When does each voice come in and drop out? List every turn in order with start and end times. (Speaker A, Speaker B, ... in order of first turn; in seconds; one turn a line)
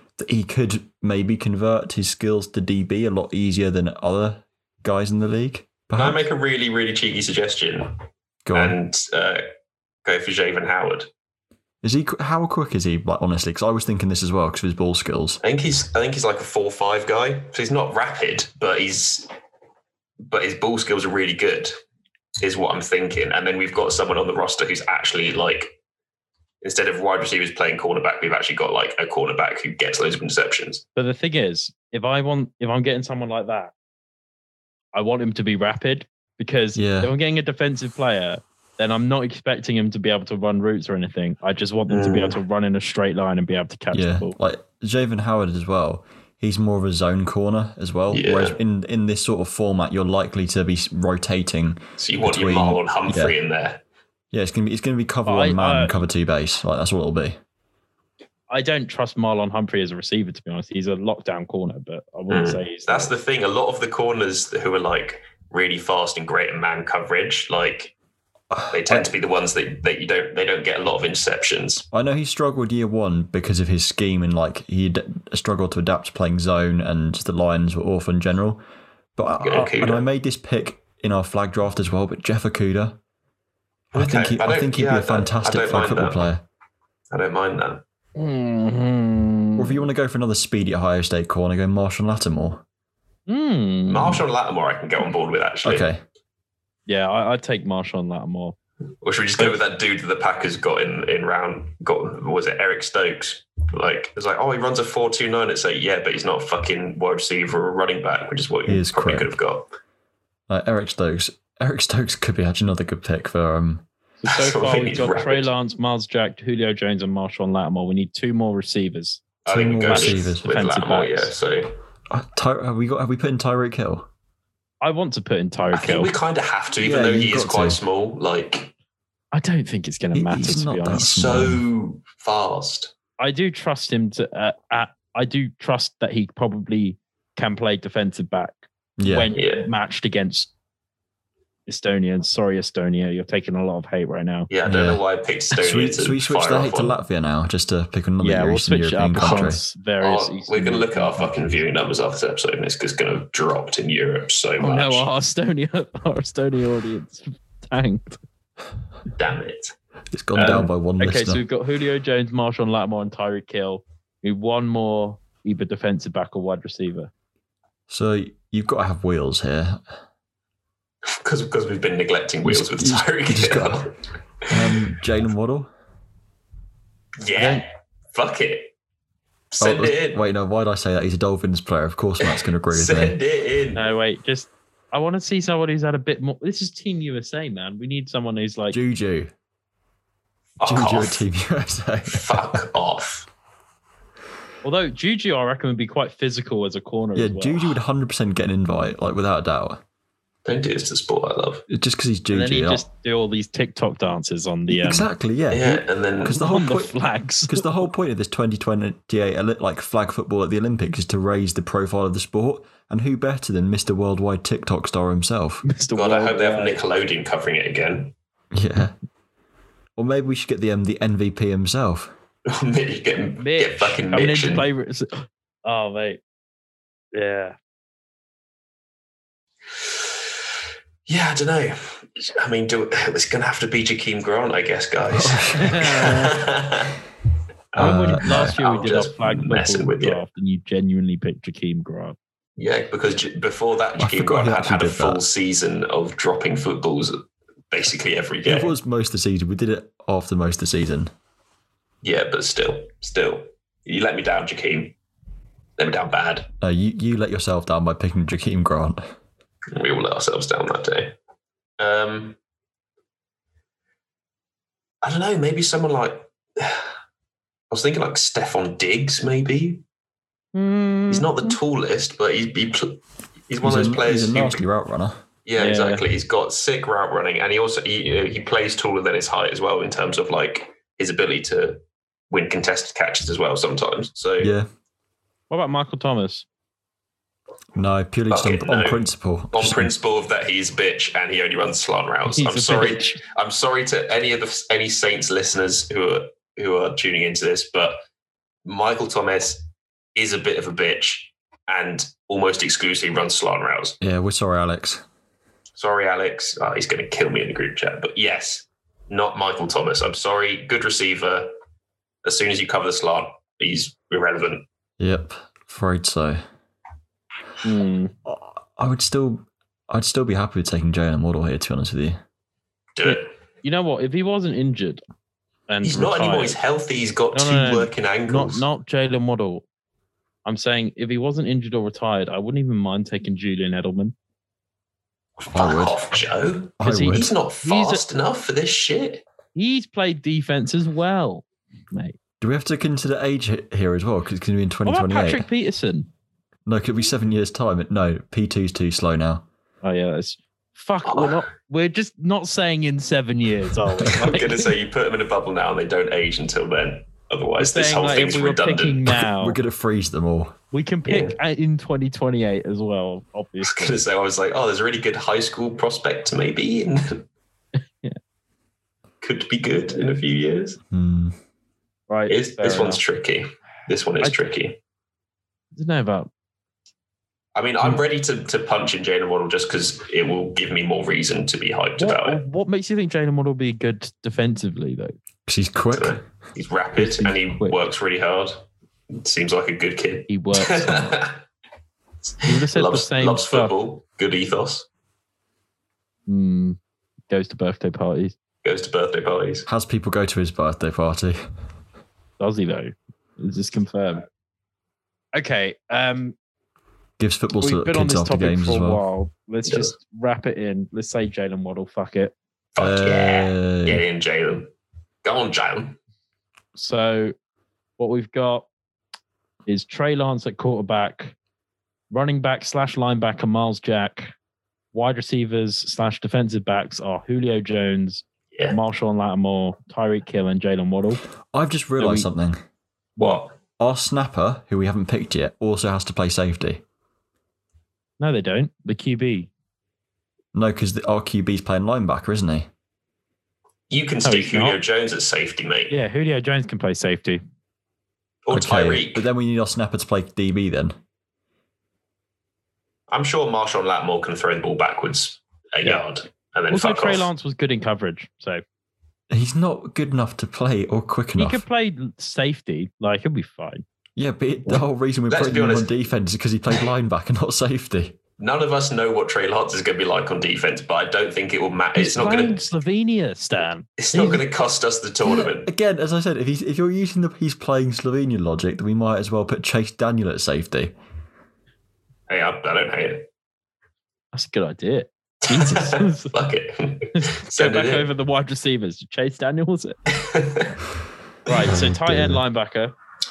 Speaker A: 0.2-6.3
Speaker B: 6.0-8.0
Speaker A: 8.5-8.8
Speaker B: 8.5-9.4
Speaker B: 10.1-11.1
Speaker A: 11.8-15.4
Speaker B: 15.4-19.3
Speaker B: 20.3-21.7
Speaker B: 22.4-25.7
Speaker B: 26.6-30.9
Speaker C: 31.0-33.7
Speaker C: 34.9-44.4
Speaker A: 36.8-37.1
Speaker B: 41.9-42.4
Speaker A: 43.9-53.4
Speaker B: 48.1-48.6
Speaker B: 52.0-53.8
Speaker A: 54.3-57.4
Speaker C: 55.3-56.0
Speaker C: 58.5-63.1
Speaker B: 62.3-67.9
Speaker A: 68.5-69.1
Speaker B: 68.7-71.8
Speaker A: 71.9-78.6
Speaker A: 79.2-83.0
Speaker B: 79.4-80.1
Speaker B: 83.9-86.3
Speaker A: 83.9-86.4
Speaker B: 87.1-87.8
Speaker C: 88.2-89.8
Speaker A: 89.6-92.6
Speaker C: 93.3-94.2
Speaker B: 93.9-95.9
Speaker A: 95.6-96.0
Speaker C: 96.9-98.6
Speaker B: 99.0-109.7
Speaker A: 108.7-109.3
Speaker A: 110.5-113.8
Speaker C: 114.2-119.2
Speaker B: 114.3-115.5
Speaker B: 119.5-121.8
Speaker A: 119.5-120.4
Speaker C: 119.9-121.3
Speaker A: 122.1-124.1
Speaker C: 124.8-126.1
Speaker B: 125.7-128.7
Speaker A: 126.8-127.8
Speaker C: 129.3-131.1
Speaker A: 130.1-131.6
Speaker B: 130.9-132.9
Speaker C: 133.2-140.5
Speaker A: 139.0-139.3
Speaker B: 139.3-139.7
Speaker C: 141.7-144.5
Speaker B: 144.5-146.9
Speaker A: 144.7-145.0
Speaker A: 145.6-149.6
Speaker C: 148.2-151.5
Speaker B: 149.2-155.1
Speaker C: 154.6-158.2
Speaker B: 159.2-159.8
Speaker A: 160.1-161.4
Speaker C: 160.4-167.1
Speaker A: 167.9-169.8
Speaker B: 171.1-174.0
Speaker A: 172.4-173.9
Speaker B: 174.5-174.8
Speaker A: 174.5-175.7
Speaker B: 177.2-178.7
Speaker C: 177.4-177.7
Speaker B: 179.5-180.2
Speaker A: 179.6-183.2
Speaker B: 182.2-183.8
Speaker C: 183.8-188.8
Speaker A: 188.7-189.3
Speaker B: 190.6-191.2
Speaker A: 190.6-192.6
Speaker B: 192.1-193.3
Speaker C: 194.6-197.7
Speaker A: 197.2-199.8
Speaker B: 200.4-201.6
Speaker A: 201.7-202.8
Speaker C: 202.3-205.1
Speaker A: 204.7-206.9
Speaker B: 205.5-206.4
Speaker C: 206.4-207.7
Speaker A: 207.5-215.6
Speaker C: 215.7-216.8
Speaker B: 215.9-218.1
Speaker A: 218.5-218.9
Speaker A: 220.0-222.1
Speaker B: 222.5-224.7
Speaker C: 223.4-226.2
Speaker C: 227.1-227.6
Speaker B: 231.1-237.0
Speaker A: 235.1-236.0
Speaker C: 235.6-236.3
Speaker B: 237.8-240.2
Speaker A: 237.8-238.6
Speaker C: 237.8-242.2
Speaker B: 242.6-248.7
Speaker A: 244.0-245.2
Speaker A: 248.4-251.1
Speaker B: 252.0-254.9
Speaker B: 255.8-256.5
Speaker A: 256.6-259.0
Speaker B: 259.7-261.1
Speaker B: 261.8-262.4
Speaker B: 265.0-266.9
Speaker B: 267.7-269.8
Speaker C: 270.5-271.6
Speaker B: 271.1-274.6
Speaker A: 273.6-275.2
Speaker B: 275.5-284.5
Speaker C: 275.6-276.0
Speaker A: 284.4-284.7
Speaker C: 285.5-286.5
Speaker A: 287.8-289.9
Speaker B: 288.3-289.0
Speaker B: 289.5-298.0
Speaker C: 292.3-293.2
Speaker B: 298.6-304.0
Speaker A: 304.0-305.0
Speaker B: 305.8-311.5
Speaker B: 312.2-314.6
Speaker A: 315.0-316.4
Speaker C: 317.6-318.1
Speaker A: 318.2-322.2
Speaker B: 323.0-323.3
Speaker C: 323.0-325.0
Speaker C: 325.7-326.6
Speaker B: 325.8-328.6
Speaker C: 327.3-329.6
Speaker C: 330.5-334.1
Speaker B: 335.4-339.2
Speaker A: 335.5-336.0
Speaker A: 336.8-337.4
Speaker C: 336.8-338.0
Speaker C: 339.6-342.2
Speaker A: 342.4-345.4
Speaker C: 344.9-346.1
Speaker A: 346.7-349.5
Speaker C: 349.8-354.7
Speaker B: 351.1-351.4
Speaker B: 354.1-359.2
Speaker C: 357.6-359.6
Speaker A: 359.2-360.6
Speaker C: 360.7-364.0
Speaker B: 361.1-361.4
Speaker B: 363.6-367.3
Speaker B: 369.2-370.8
Speaker A: 370.9-371.4
Speaker C: 372.1-373.0
Speaker B: 372.3-374.8
Speaker C: 375.7-376.3
Speaker B: 377.6-382.4
Speaker C: 382.0-385.1
Speaker A: 385.5-386.2
Speaker B: 385.9-391.4
Speaker C: 387.0-387.8
Speaker C: 390.3-391.2
Speaker B: 392.4-394.9
Speaker C: 392.4-393.7
Speaker C: 396.3-396.8
Speaker C: 397.3-398.4
Speaker B: 398.6-399.7
Speaker A: 399.7-401.5
Speaker C: 402.4-404.3
Speaker C: 405.4-406.4
Speaker A: 407.2-409.0
Speaker C: 407.6-412.3
Speaker B: 409.7-409.9
Speaker B: 412.8-414.7
Speaker A: 412.8-414.0
Speaker B: 415.2-416.0
Speaker C: 416.8-417.4
Speaker C: 418.0-418.7
Speaker C: 419.7-421.4
Speaker C: 422.1-424.3
Speaker C: 424.9-431.2
Speaker A: 431.5-432.6
Speaker C: 432.0-432.3
Speaker B: 433.2-433.5
Speaker A: 433.8-436.8
Speaker C: 438.2-439.5
Speaker A: 440.5-442.7
Speaker B: 443.9-446.0
Speaker C: 444.2-444.8
Speaker C: 445.9-447.4
Speaker B: 448.5-449.3
Speaker A: 448.5-451.0
Speaker B: 453.1-457.3
Speaker C: 456.7-458.6
Speaker A: 459.3-461.6
Speaker C: 461.4-463.8
Speaker A: 464.2-468.2
Speaker B: 465.3-465.9
Speaker B: 468.4-472.7
Speaker C: 472.0-474.4
Speaker B: 474.0-475.7
Speaker A: 475.3-480.9
Speaker B: 482.3-483.3
Speaker C: 484.3-486.3
Speaker B: 485.5-488.1
Speaker C: 487.1-490.0
Speaker B: 490.1-490.7
Speaker C: 491.5-492.9
Speaker A: 491.6-492.4